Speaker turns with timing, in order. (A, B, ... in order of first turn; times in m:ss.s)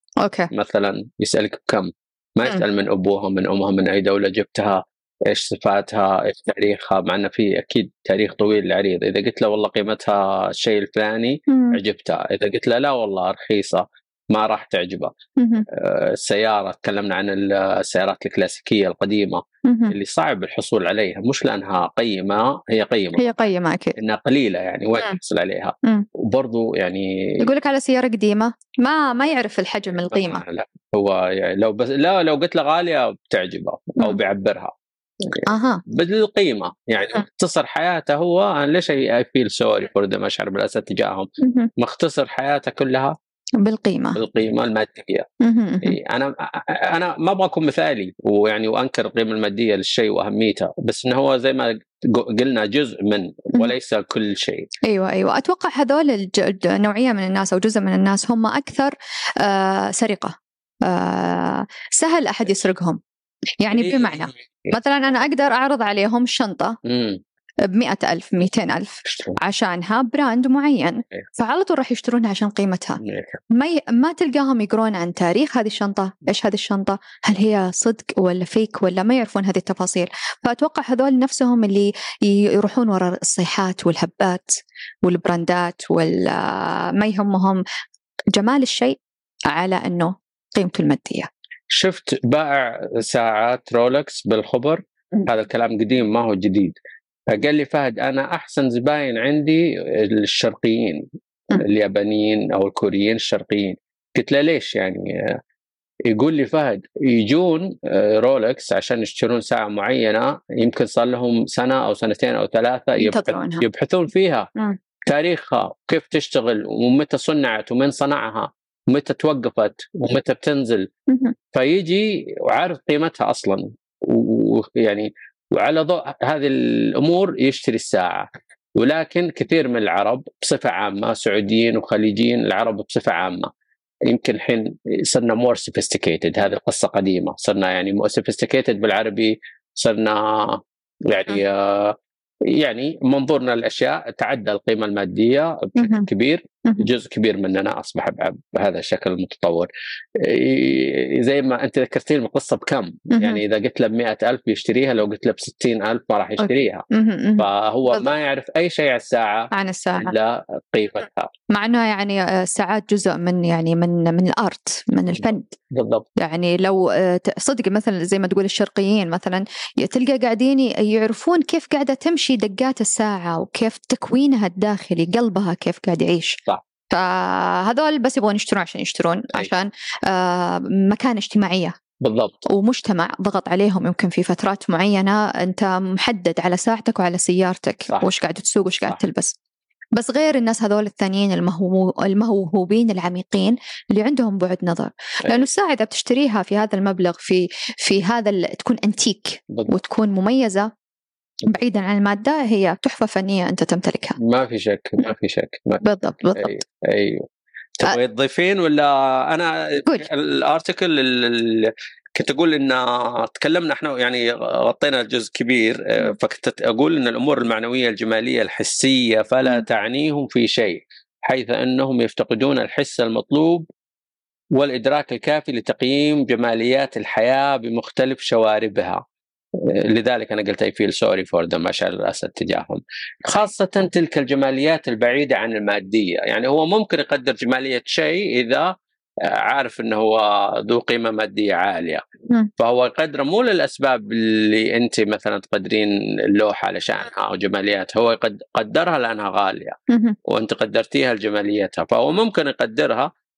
0:00.2-0:00.5 A
0:00.5-0:15.1 B
0:11.5-0:11.8 A
0:15.4-0:15.7 A
0:15.7-0:23.3 B
0:19.6-0:20.0 A
0:23.2-0:24.0 A
0:24.0-0:27.4 B
0:27.4-0:30.4 A
0:30.1-0:43.2 B
0:35.5-0:35.8 A
0:41.4-0:41.7 A
0:43.6-0:44.2 A
0:44.2-0:45.3 B
0:45.4-0:46.0 A
0:45.8-0:54.7 B
0:54.9-1:00.4 A
1:00.9-1:03.0 A
1:03.6-1:06.8 A
1:03.7-1:04.7 B
1:06.8-1:07.2 B
1:07.7-1:13.0 A
1:09.1-1:09.4 B
1:13.0-1:13.4 B
1:13.6-1:27.6 A
1:28.4-1:29.0 A
1:29.5-1:31.3 A
1:31.7-1:36.8 B
1:37.3-1:45.4 B
1:46.1-1:54.5 B
1:53.0-1:53.6 A
1:55.1-2:00.9 B
2:01.5-2:13.5 B
2:14.1-2:22.0 B
2:22.5-2:36.8 B
2:25.8-2:26.1 A
2:33.1-2:33.4 A
2:36.4-2:38.1 A
2:37.4-2:41.3 B
2:39.5-2:40.1 A
2:41.5-2:45.6 A
2:45.2-2:46.1 B
2:46.2-2:56.4 A
2:56.9-3:01.7 A
3:02.0-3:02.4 B
3:02.5-3:09.4 A
3:10.0-3:20.7 A
3:21.5-3:24.2 A
3:24.2-3:25.8 B
3:25.8-3:26.6 A
3:26.4-3:27.3 B
3:27.8-3:43.7 B
3:44.6-3:49.0 B
3:49.6-4:02.0 B
4:02.6-4:13.1 B
4:09.9-4:10.2 A